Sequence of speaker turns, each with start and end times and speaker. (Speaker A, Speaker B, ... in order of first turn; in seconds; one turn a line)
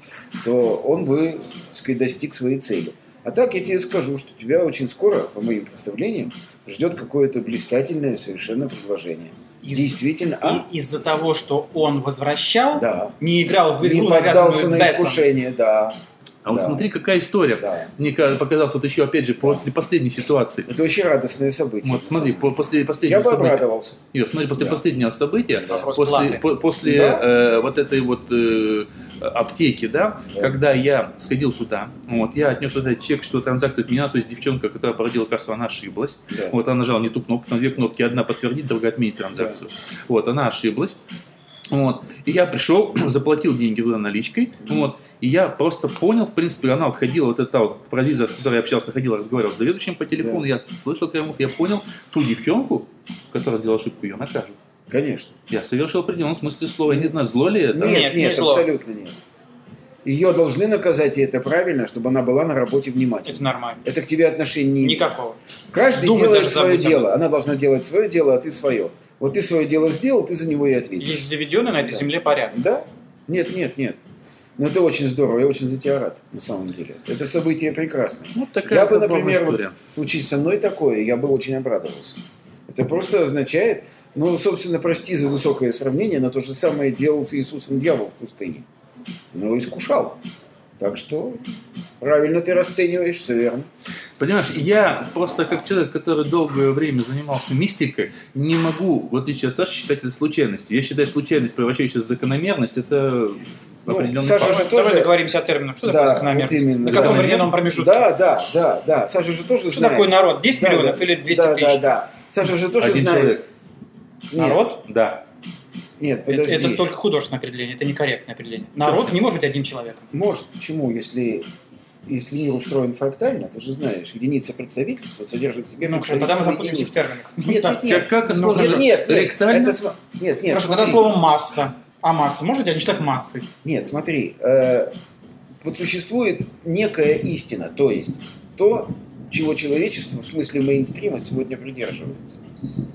Speaker A: 0.4-10.7
Speaker B: 9.6-15.3
Speaker A: 12.7-13.1
Speaker A: 13.8-16.0
Speaker C: 16.4-20.7
Speaker A: 16.5-16.9
Speaker A: 17.6-17.9
Speaker A: 19.4-19.7
Speaker A: 20.7-24.0
Speaker C: 21.8-41.0
Speaker B: 25.7-26.5
Speaker A: 26.8-27.2
Speaker A: 36.3-36.6
Speaker A: 39.3-39.6
Speaker C: 41.7-54.6
Speaker A: 50.2-50.5
Speaker A: 54.9-55.3
Speaker C: 55.5-58.2
Speaker A: 56.9-57.1
Speaker A: 57.7-59.2
Speaker B: 57.8-58.7
Speaker A: 60.0-65.1
Speaker B: 63.2-63.8
Speaker B: 64.8-65.4
Speaker A: 65.7-74.0
Speaker B: 65.9-67.1
Speaker B: 71.0-72.6
Speaker A: 74.6-88.7
Speaker C: 78.3-79.8
Speaker A: 89.3-90.2
Speaker A: 90.8-91.4
Speaker A: 92.0-93.7
Speaker C: 94.2-104.7
Speaker A: 103.9-105.1
Speaker B: 104.4-108.1
Speaker A: 105.8-113.4
Speaker C: 106.9-107.5
Speaker B: 109.7-111.8
Speaker C: 112.8-113.5
Speaker A: 114.3-114.6
Speaker B: 114.3-114.8
Speaker C: 114.9-115.2
Speaker A: 116.0-116.8
Speaker B: 116.3-120.1
Speaker C: 118.8-119.2
Speaker A: 120.1-121.5
Speaker A: 122.1-131.1
Speaker B: 125.8-128.9
Speaker C: 127.8-129.8
Speaker B: 130.5-133.5
Speaker A: 133.6-134.9
Speaker A: 135.6-142.4